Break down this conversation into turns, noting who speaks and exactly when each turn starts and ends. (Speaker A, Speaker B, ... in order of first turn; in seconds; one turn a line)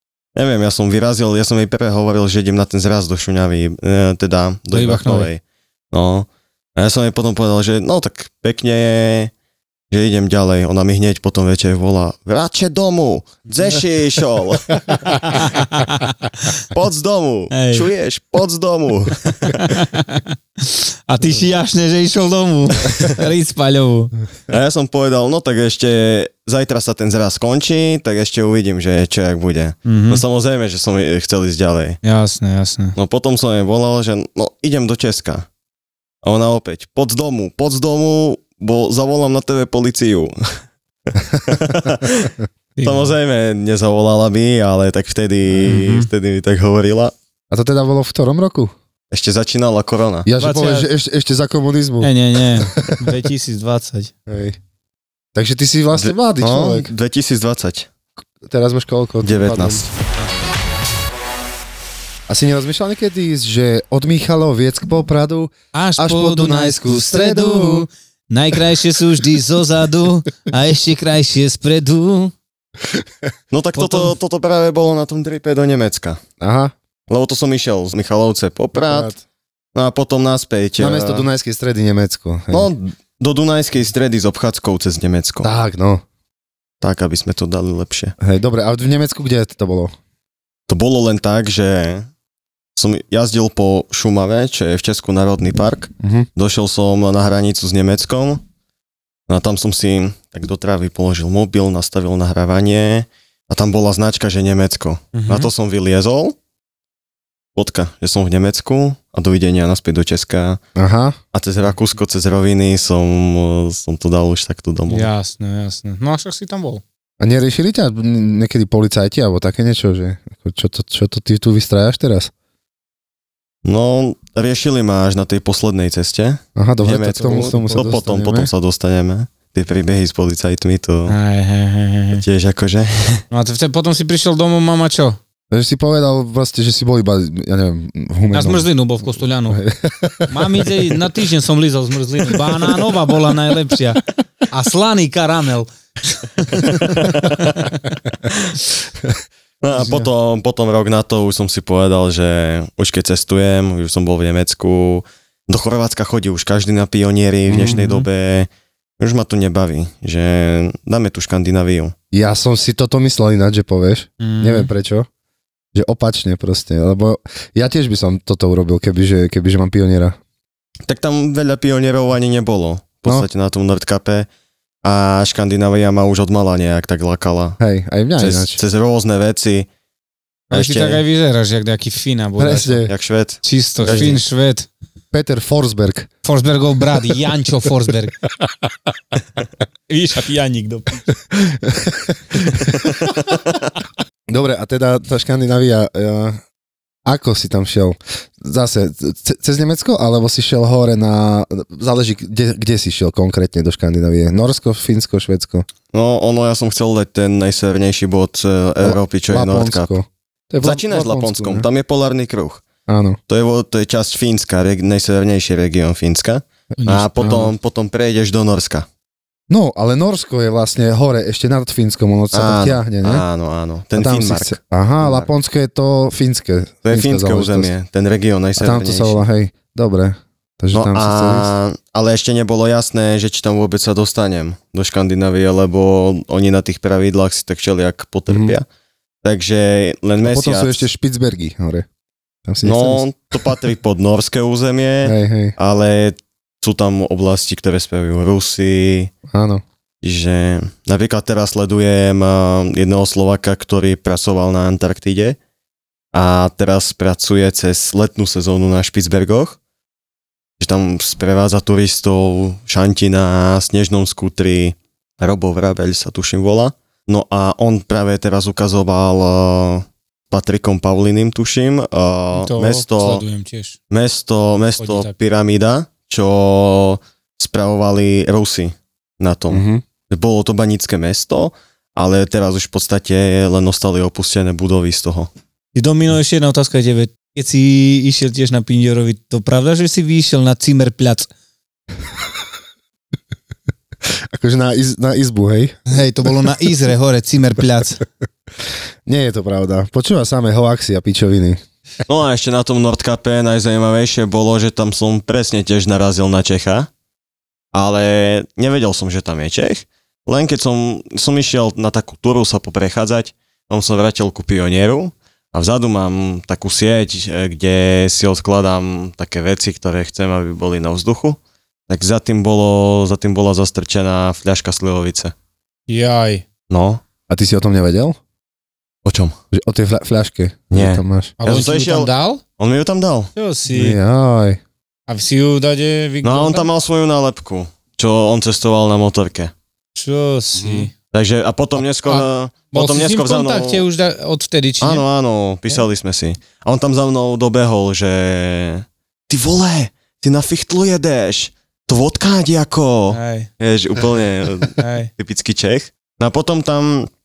Speaker A: 0.3-5.4
Speaker B: 4.7-5.3
Speaker A: 5.9-9.3
Speaker A: 9.9-14.8
Speaker B: 15.1-16.5
Speaker A: 16.7-19.6
Speaker B: 17.5-17.9
Speaker B: 19.5-24.1
Speaker A: 24.5-32.0
Speaker B: 29.9-30.2
Speaker B: 32.0-33.0
Speaker A: 33.0-35.5
Speaker A: 36.2-40.3
Speaker A: 41.4-47.1
Speaker B: 42.8-43.1
Speaker B: 45.7-46.1
Speaker C: 47.5-48.7
Speaker A: 49.1-50.3
Speaker C: 50.3-53.0
Speaker B: 50.4-50.9
Speaker B: 52.0-54.1
Speaker C: 54.3-54.6
Speaker C: 55.4-56.9
Speaker A: 56.0-57.9
Speaker C: 58.4-59.9
Speaker A: 59.2-59.9
Speaker C: 62.3-67.9
Speaker B: 65.7-72.3
Speaker A: 73.5-76.2
Speaker B: 73.8-74.1
Speaker C: 76.4-76.7
Speaker A: 77.1-79.1
Speaker C: 78.8-79.2
Speaker A: 79.8-81.3
Speaker C: 80.8-82.7
Speaker A: 82.5-85.5
Speaker C: 85.4-86.0
Speaker A: 86.8-88.1
Speaker C: 88.2-89.9
Speaker A: 90.7-92.1
Speaker A: 92.8-98.4
Speaker C: 96.0-96.3
Speaker A: 99.3-106.4
Speaker B: 105.1-105.5
Speaker A: 107.5-110.6
Speaker C: 110.8-111.2
Speaker A: 111.3-115.1
Speaker B: 114.9-116.8
Speaker C: 117.2-122.3
Speaker A: 123.7-131.2
Speaker C: 126.6-128.5
Speaker B: 131.1-132.2
Speaker A: 132.2-133.2
Speaker B: 133.3-135.2
Speaker C: 135.5-138.7
Speaker B: 138.3-139.6
Speaker C: 139.5-140.7
Speaker B: 140.3-147.3
Speaker A: 146.6-147.6
Speaker A: 149.6-161.9
Speaker C: 157.5-157.8
Speaker B: 157.6-158.0
Speaker C: 162.1-165.1
Speaker B: 164.2-164.7
Speaker C: 165.8-170.2
Speaker A: 170.9-174.3
Speaker A: 174.8-177.6
Speaker C: 177.6-178.6
Speaker A: 178.2-179.7
Speaker A: 180.5-181.0
Speaker B: 180.5-182.9
Speaker C: 182.4-182.9
Speaker A: 182.9-184.2
Speaker B: 183.4-184.7
Speaker C: 183.8-184.2
Speaker C: 185.1-186.1
Speaker B: 186.2-188.2
Speaker B: 189.9-191.1
Speaker C: 191.5-192.8
Speaker C: 194.3-196.4
Speaker C: 197.1-205.7
Speaker A: 205.9-209.9
Speaker C: 208.8-211.7
Speaker A: 210.6-212.6
Speaker C: 212.9-213.2
Speaker A: 213.3-218.9
Speaker B: 216.8-217.5
Speaker C: 219.5-223.2
Speaker A: 222.3-225.3
Speaker C: 224.0-227.7
Speaker A: 226.8-229.2
Speaker C: 228.6-231.5
Speaker A: 230.7-238.7
Speaker C: 238.3-238.6
Speaker A: 239.2-240.9
Speaker C: 240.2-241.9
Speaker C: 242.5-243.1
Speaker A: 242.6-249.1
Speaker C: 245.0-245.6
Speaker C: 249.3-249.6
Speaker A: 250.0-255.4
Speaker A: 256.1-259.6
Speaker A: 260.6-273.2
Speaker B: 272.3-273.8
Speaker A: 273.9-285.3
Speaker B: 274.8-275.1
Speaker C: 279.5-279.8
Speaker B: 285.8-291.3
Speaker C: 294.3-295.8
Speaker B: 295.9-298.0
Speaker C: 299.1-301.6
Speaker A: 302.1-306.9
Speaker A: 307.7-325.3
Speaker B: 325.9-326.4
Speaker A: 326.7-327.0
Speaker C: 327.3-328.2
Speaker A: 329.1-329.4
Speaker C: 329.5-331.3
Speaker A: 330.7-333.3
Speaker B: 331.4-332.4
Speaker B: 333.4-334.0
Speaker C: 333.7-334.6
Speaker B: 335.1-336.7
Speaker A: 336.2-339.5
Speaker B: 340.0-340.9
Speaker C: 340.6-340.9
Speaker A: 341.1-343.9
Speaker B: 342.1-345.1
Speaker A: 344.8-357.1
Speaker B: 353.1-353.5
Speaker B: 354.8-355.1